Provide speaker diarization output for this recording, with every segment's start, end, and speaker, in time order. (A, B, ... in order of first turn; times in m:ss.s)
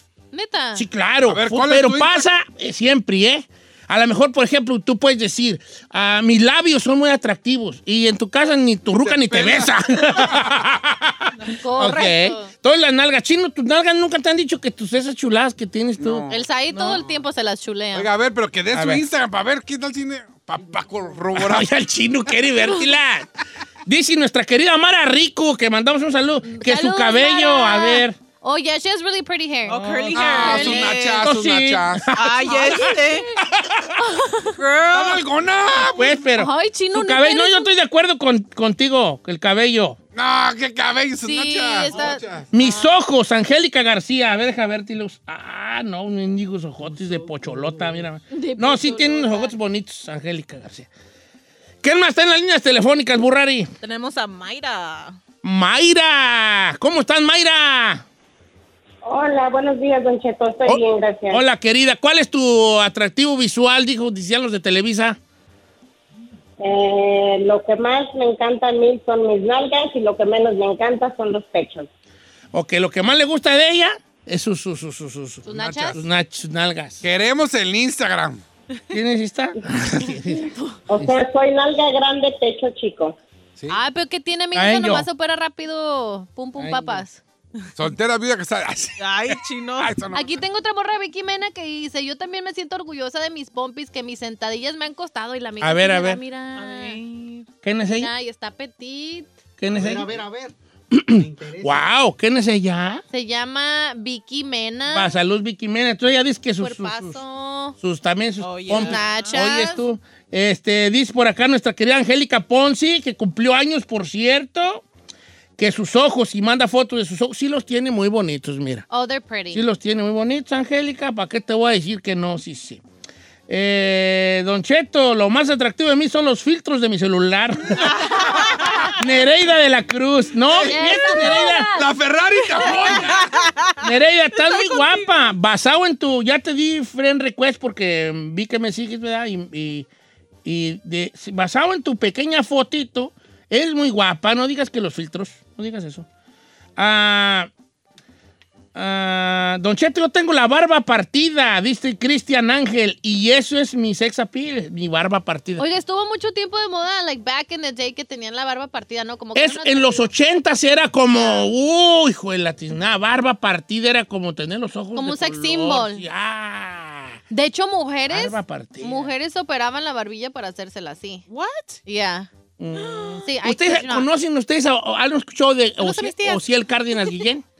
0:00.3-0:00.8 A
0:00.7-0:17.0 B
0:01.2-0:02.2 C
0:08.9-0:10.4 C
0:11.3-0:11.6 D
0:11.6-0:12.5 A
0:16.0-0:17.2 C
0:16.3-0:18.1 A
0:17.9-0:21.7 C
0:18.7-0:19.0 B
0:20.6-0:21.3 E
0:21.3-0:23.3 B
0:23.8-0:28.2 B
0:26.4-0:30.8 A
0:29.7-0:31.3 D
0:29.7-0:32.9 B
0:30.1-0:32.2 C
0:32.1-0:33.3 D
0:32.5-0:33.4 A
0:33.6-0:34.0 B
0:34.0-0:34.6 A
0:34.5-0:35.2 D
0:34.9-0:36.2 C
0:35.9-0:40.0 B
0:36.4-0:37.7 A
0:40.1-0:42.5 C
0:41.2-0:43.0 A
0:41.9-0:42.2 E
0:42.5-0:50.9 B
0:46.8-0:48.1 E
0:48.3-0:49.5 A
0:51.8-0:53.7 B
0:53.8-0:55.2 D
0:55.4-0:58.0 B
0:59.0-1:01.4 F
1:00.6-1:05.2 B
1:06.6-1:11.9 F
1:12.5-1:17.0 B
1:15.4-1:16.0 A
1:15.5-1:16.0 C
1:17.0-1:18.4 C
1:18.9-1:21.2 B
1:20.5-1:20.8 A
1:20.9-1:23.2 F
1:23.7-1:27.2 A
1:24.5-1:25.1 B
1:26.6-1:27.0 B
1:27.8-1:29.1 C
1:29.0-1:29.9 D
1:29.8-1:30.4 C
1:30.1-1:37.0 A
1:35.6-1:36.2 B
1:36.5-1:37.5 D
1:37.6-1:38.1 B
1:37.9-1:39.3 A
1:39.6-1:40.2 B
1:39.7-1:40.5 E
1:40.9-1:43.0 B
1:41.1-1:41.8 E
1:43.1-1:45.1 A
1:44.9-1:47.2 B
1:46.6-1:47.8 A
1:47.8-1:54.8 B
1:48.4-1:49.4 D
1:48.7-1:49.8 A
1:55.6-1:58.8 B
1:58.9-1:59.6 A
1:59.5-2:02.8 B
2:03.5-2:08.1 B
2:08.1-2:08.8 A
2:08.9-2:11.7 B
2:10.4-2:13.5 C
2:10.6-2:11.9 A
2:12.6-2:13.8 D
2:13.8-2:19.9 B
2:14.4-2:15.2 D
2:20.4-2:26.0 B
2:26.8-2:27.5 B
2:28.7-2:35.6 B
2:35.6-2:40.1 A
2:39.3-2:47.2 B
2:41.1-2:41.5 A
2:44.9-2:46.0 A
2:47.3-2:51.2 A
2:48.1-2:49.1 B
2:51.3-2:51.8 D
2:51.8-2:52.3 A
2:52.6-2:57.4 B
2:52.8-2:53.2 D
2:53.2-2:54.1 A
2:55.8-2:56.4 A